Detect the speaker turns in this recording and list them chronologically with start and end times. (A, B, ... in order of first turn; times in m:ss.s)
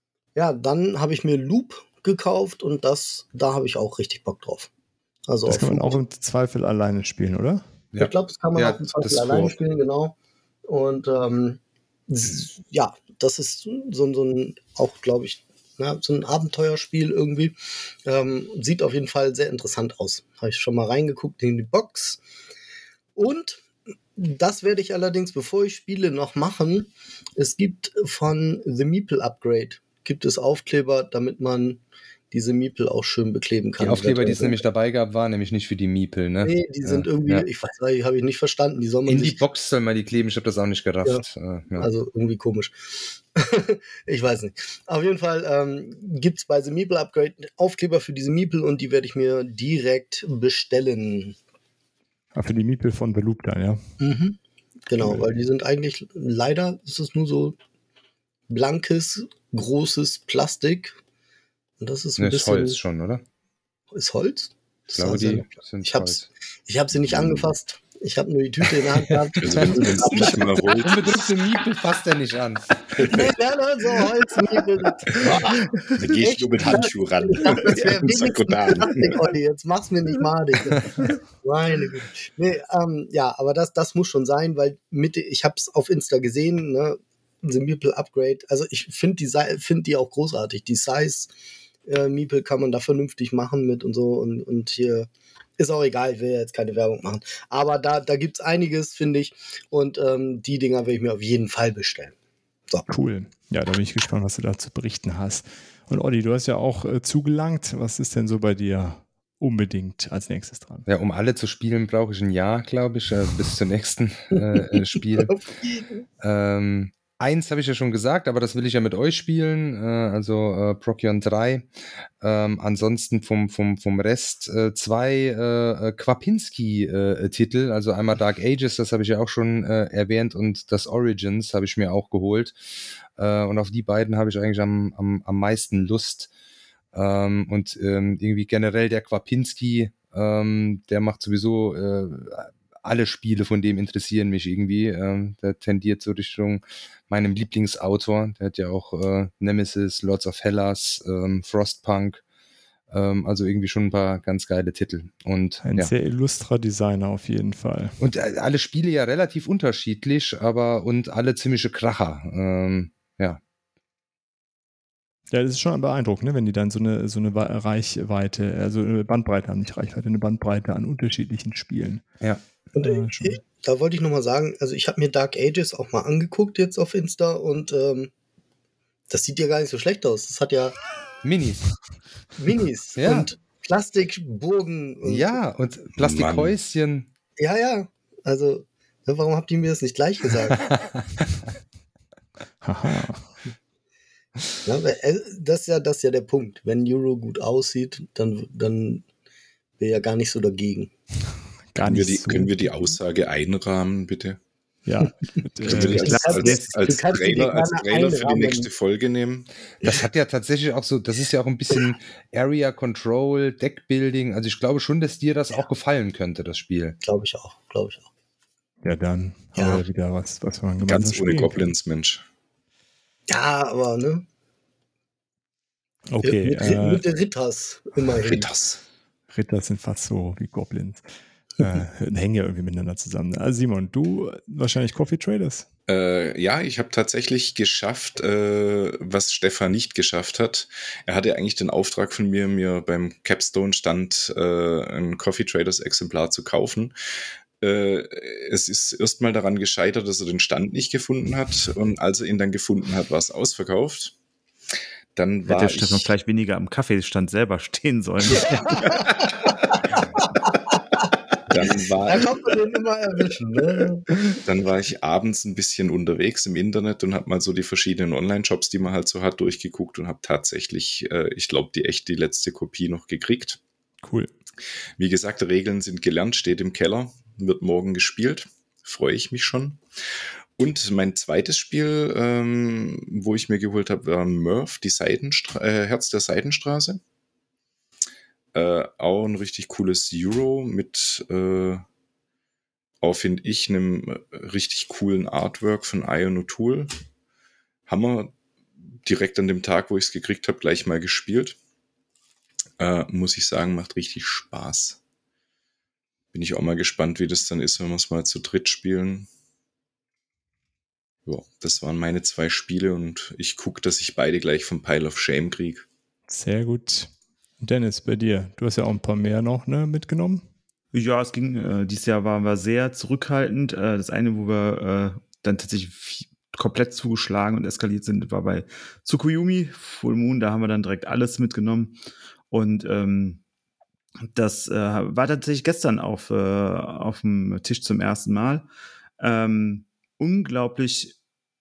0:00.3-0:04.7 A
0:05.3-0:06.0 A
0:05.4-0:07.6 B
0:07.9-0:09.5 C
0:08.0-0:10.1 A
0:10.7-0:22.2 A
0:23.2-0:23.6 A
0:24.2-0:34.6 A
0:33.8-0:37.4 C
0:36.4-0:39.4 A
0:39.1-0:41.9 C
0:41.8-0:42.7 A
0:43.4-0:51.4 A
0:52.3-0:53.8 B
0:54.0-0:57.6 A
0:55.0-0:55.2 B
0:58.5-1:00.9 A
1:01.8-1:02.8 A
1:02.2-1:03.2 C
1:03.9-1:10.7 A
1:05.0-1:06.3 C
1:08.8-1:13.3 C
1:09.4-1:11.3 D
1:13.0-1:31.3 A
1:15.9-1:19.2 D
1:31.8-1:42.1 A
1:42.8-1:50.8 B
1:50.9-1:55.4 C
1:55.6-1:56.0 A
1:56.2-2:01.7 C
2:02.2-2:12.6 C
2:13.2-2:16.3 C
2:16.9-2:32.2 C
2:32.9-2:35.9 C
2:35.6-2:38.0 B
2:38.0-2:43.4 C
2:45.3-2:52.0 B
2:52.7-2:58.1 A
2:52.8-2:53.4 B
2:59.1-3:00.8 A
3:01.2-3:01.7 C
3:02.4-3:05.4 A
3:03.0-3:03.3 C
3:05.0-3:07.1 C
3:06.0-3:06.5 D
3:07.4-3:10.6 A
3:10.6-3:10.9 C
3:12.6-3:13.3 B
3:14.6-3:19.0 A
3:19.8-3:20.9 A
3:21.7-3:23.0 B
3:21.8-3:24.4 D
3:24.8-3:26.5 B
3:25.6-3:29.5 D
3:25.7-3:26.8 E
3:25.8-3:28.7 A
3:29.8-3:37.0 C
3:37.0-3:38.0 A
3:38.8-3:41.7 B
3:39.6-3:39.8 A
3:40.8-3:42.2 D
3:43.3-3:44.2 A
3:46.1-3:47.0 B
3:46.2-3:48.5 A
3:48.1-3:48.8 D
3:49.3-3:51.0 B
3:51.6-3:55.7 B
3:55.9-4:06.9 D
4:07.6-4:14.1 D
4:15.1-4:16.1 D
4:15.5-4:19.0 E
4:18.4-4:19.8 A
4:21.5-4:22.3 D
4:22.0-4:24.1 A
4:24.4-4:33.6 D
4:34.0-4:34.3 B
4:35.0-4:39.8 D
4:40.6-4:47.0 D
4:48.5-4:51.8 D
4:53.0-4:56.9 D
4:57.8-4:58.3 D
4:59.0-5:01.6 D
5:02.8-5:05.0 D
5:06.3-5:09.3 D
5:11.2-5:15.8 D
5:16.3-5:20.4 B
5:20.9-5:32.0 E
5:32.5-5:33.4 E
5:34.3-5:38.6 E
5:39.2-5:41.1 E